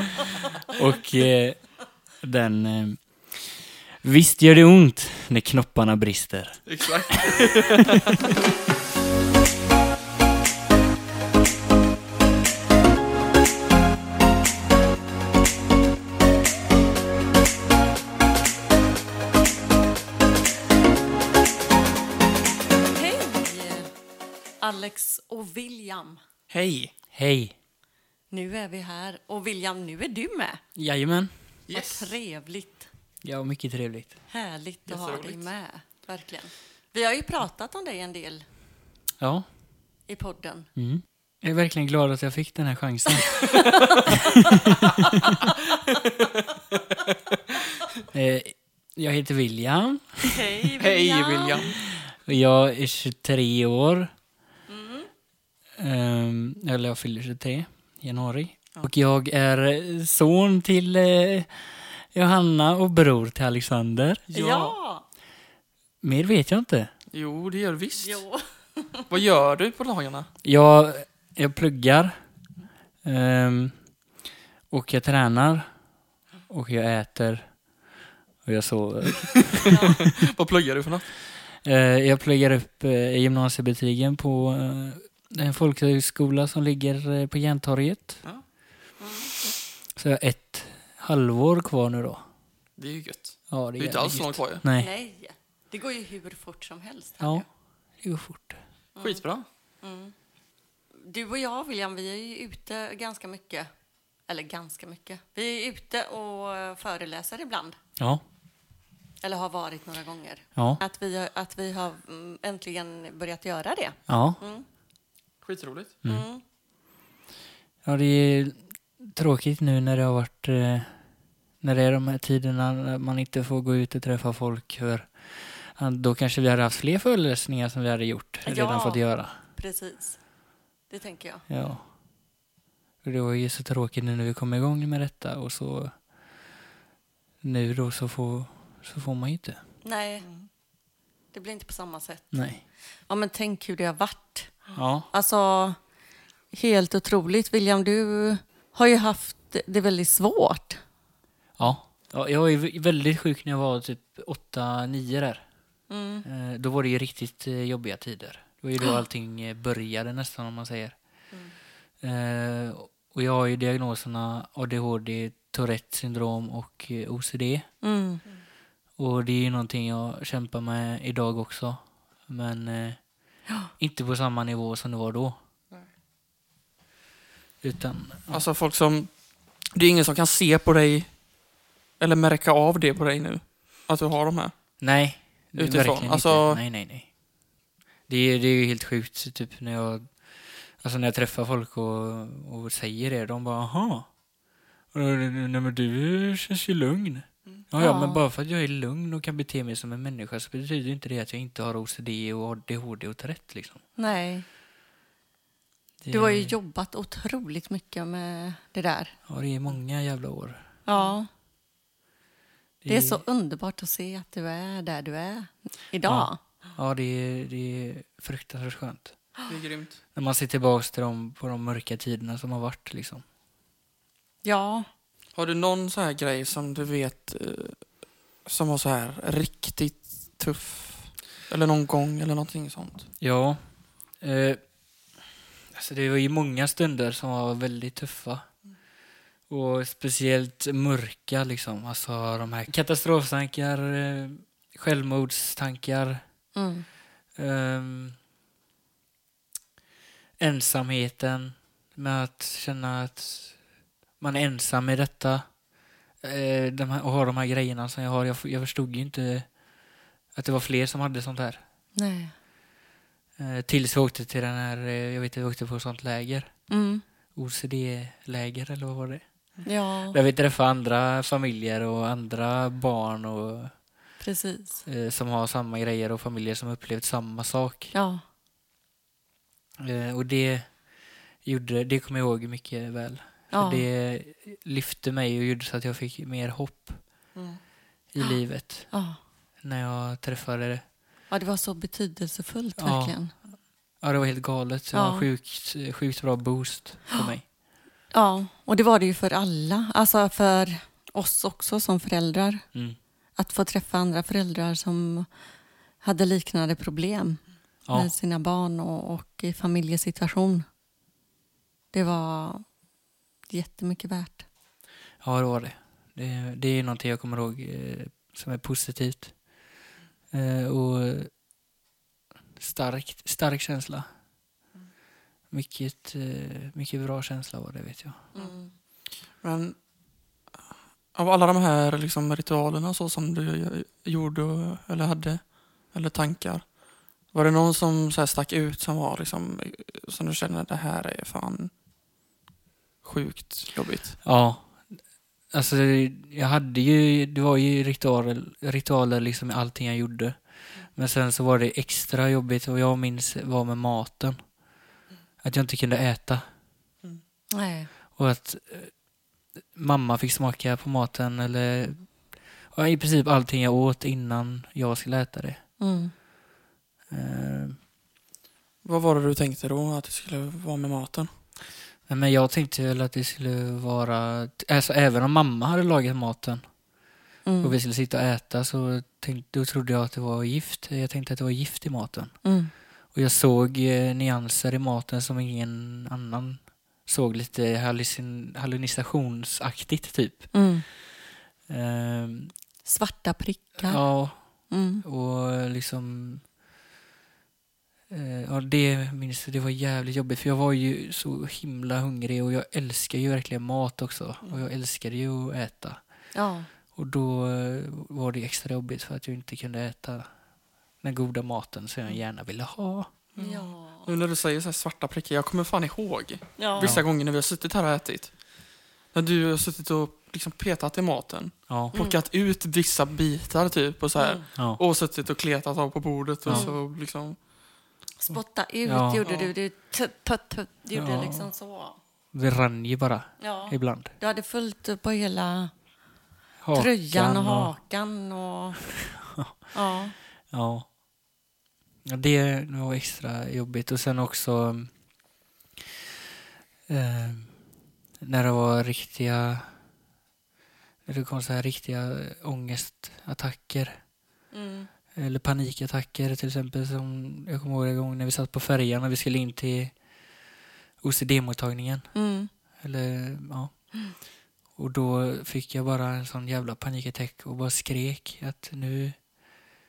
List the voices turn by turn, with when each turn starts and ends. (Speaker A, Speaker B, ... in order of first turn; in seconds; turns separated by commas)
Speaker A: 0.7-6.6, Speaker B: 6.7-8.3, Speaker C: 22.9-23.9, Speaker C: 24.6-26.2, Speaker B: 26.5-26.9, Speaker A: 27.1-27.6, Speaker C: 28.3-30.6, Speaker A: 30.8-31.3, Speaker B: 31.7-32.1, Speaker C: 31.7-32.9, Speaker A: 33.2-34.1, Speaker C: 34.3-38.5, Speaker B: 34.9-35.5, Speaker A: 39.2-39.5, Speaker C: 40.1-40.7, Speaker A: 40.8-45.5, Speaker C: 43.4-43.7, Speaker B: 45.9-47.1, Speaker A: 48.1-50.4, Speaker C: 50.2-51.8, Speaker B: 50.7-51.8, Speaker A: 51.8-54.1, Speaker C: 54.7-55.1, Speaker A: 55.8-64.2, Speaker B: 64.3-64.8, Speaker C: 64.3-65.0, Speaker A: 66.0-66.9, Speaker B: 67.1-68.2, Speaker C: 68.0-69.1, Speaker B: 69.1-70.3, Speaker A: 70.4-72.2, Speaker A: 73.0-73.8, Speaker A: 74.7-75.7, Speaker A: 76.5-77.5, Speaker A: 78.4-79.7, Speaker B: 79.7-81.1, Speaker A: 81.6-88.2, Speaker C: 89.0-89.3, Speaker A: 90.0-92.2, Speaker B: 92.8-94.6, Speaker A: 93.5-94.9, Speaker C: 94.7-97.4, Speaker A: 97.2-97.4, Speaker A: 98.0-98.6, Speaker C: 98.9-99.2, Speaker B: 99.0-99.5, Speaker C: 99.8-100.1, Speaker C: 101.0-103.7, Speaker C: 104.3-107.8, Speaker C: 109.2-114.7, Speaker A: 114.1-114.4, Speaker B: 115.4-116.0, Speaker C: 116.0-116.4, Speaker A: 117.8-120.9, Speaker A: 121.6-129.4, Speaker C: 128.4-130.2, Speaker C: 130.9-131.4, Speaker A: 131.5-131.9, Speaker A: 133.0-135.9, Speaker A: 137.4-139.6, Speaker C: 139.8-140.3, Speaker C: 141.3-142.3, Speaker A: 142.3-142.6, Speaker C: 143.1-145.8, Speaker A: 144.7-145.1, Speaker C: 146.5-150.8, Speaker A: 151.6-155.4, Speaker C: 155.9-156.2, Speaker A: 156.2-160.9, Speaker A: 162.0-167.7, Speaker C: 167.8-168.2, Speaker A: 169.0-173.0, Speaker A: 173.8-175.4, Speaker A: 177.6-178.4, Speaker B: 178.3-179.1, Speaker B: 179.7-181.2, Speaker B: 182.0-184.5, Speaker A: 184.8-187.1, Speaker B: 185.6-186.6, Speaker A: 188.1-190.1, Speaker A: 190.8-194.1, Speaker A: 194.9-203.8, Speaker C: 197.8-198.2, Speaker C: 204.0-204.4, Speaker A: 206.0-206.5, Speaker C: 206.1-209.2, Speaker A: 209.3-210.7, Speaker C: 210.8-211.3, Speaker A: 212.8-213.2, Speaker C: 212.9-216.4, Speaker A: 216.0-219.2, Speaker B: 219.5-220.0, Speaker A: 220.1-223.2, Speaker C: 224.4-224.9, Speaker B: 225.3-227.8, Speaker B: 228.4-233.1, Speaker A: 233.2-233.6, Speaker A: 234.2-234.6, Speaker A: 235.7-238.5, Speaker A: 239.5-246.2, Speaker C: 246.5-246.8, Speaker A: 247.3-248.2, Speaker A: 250.4-253.6, Speaker A: 254.2-255.5, Speaker A: 256.2-259.5, Speaker A: 260.3-261.6, Speaker C: 261.9-262.3, Speaker A: 263.4-266.5, Speaker C: 266.7-267.0, Speaker A: 267.3-269.2, Speaker C: 269.6-270.2, Speaker A: 270.1-273.7, Speaker C: 274.2-274.8, Speaker A: 274.8-277.9, Speaker C: 277.9-278.2, Speaker A: 279.8-280.8, Speaker A: 281.4-287.0, Speaker C: 283.5-283.8, Speaker B: 287.3-287.6, Speaker A: 288.1-288.9, Speaker C: 288.9-289.2, Speaker A: 289.6-290.8, Speaker C: 291.3-293.3, Speaker A: 292.8-293.4, Speaker A: 294.0-297.4, Speaker C: 294.9-295.3, Speaker C: 298.1-302.7, Speaker C: 303.4-305.3, Speaker C: 306.0-310.6, Speaker A: 307.9-308.1, Speaker C: 311.9-312.6, Speaker C: 313.5-314.4, Speaker A: 315.2-319.4, Speaker A: 320.3-321.3, Speaker A: 322.6-324.1, Speaker A: 325.5-328.2, Speaker C: 328.3-328.7, Speaker B: 329.4-329.8, Speaker B: 331.1-336.7, Speaker B: 337.3-341.7, Speaker B: 343.0-344.2, Speaker A: 344.2-345.0, Speaker A: 345.5-350.4, Speaker A: 350.9-354.4, Speaker A: 355.4-356.4, Speaker C: 357.5-357.9, Speaker A: 358.1-358.9, Speaker A: 359.7-362.2, Speaker A: 362.7-365.6, Speaker C: 365.8-366.1, Speaker A: 367.1-367.8, Speaker B: 368.8-371.3, Speaker A: 372.1-376.6, Speaker C: 377.4-377.7, Speaker A: 377.6-382.3, Speaker C: 382.4-382.7, Speaker A: 383.1-390.5, Speaker C: 390.5-390.9, Speaker A: 391.7-392.5, Speaker C: 392.8-394.1, Speaker A: 393.8-394.4, Speaker C: 394.7-395.0, Speaker A: 395.0-396.4, Speaker A: 398.1-406.0, Speaker C: 406.3-406.7, Speaker A: 406.9-410.3, Speaker A: 411.0-413.1, Speaker B: 413.3-418.3, Speaker C: 413.4-414.1, Speaker C: 416.6-417.0, Speaker B: 419.1-427.4, Speaker A: 421.7-421.9, Speaker C: 421.9-422.2, Speaker C: 424.2-424.4, Speaker C: 426.5-426.8, Speaker C: 428.2-432.0, Speaker A: 428.8-429.2, Speaker B: 429.2-429.5, Speaker A: 430.9-431.5, Speaker A: 432.3-434.1, Speaker C: 433.4-435.7, Speaker A: 436.6-437.7, Speaker C: 436.7-438.9, Speaker C: 439.7-440.1, Speaker A: 440.5-440.9, Speaker A: 442.0-444.9, Speaker A: 446.9-447.5, Speaker A: 448.2-449.7, Speaker A: 451.1-454.0, Speaker C: 454.5-454.9, Speaker A: 455.1-459.9, Speaker A: 461.0-462.1, Speaker C: 462.1-462.5, Speaker A: 462.8-463.7, Speaker A: 464.8-469.2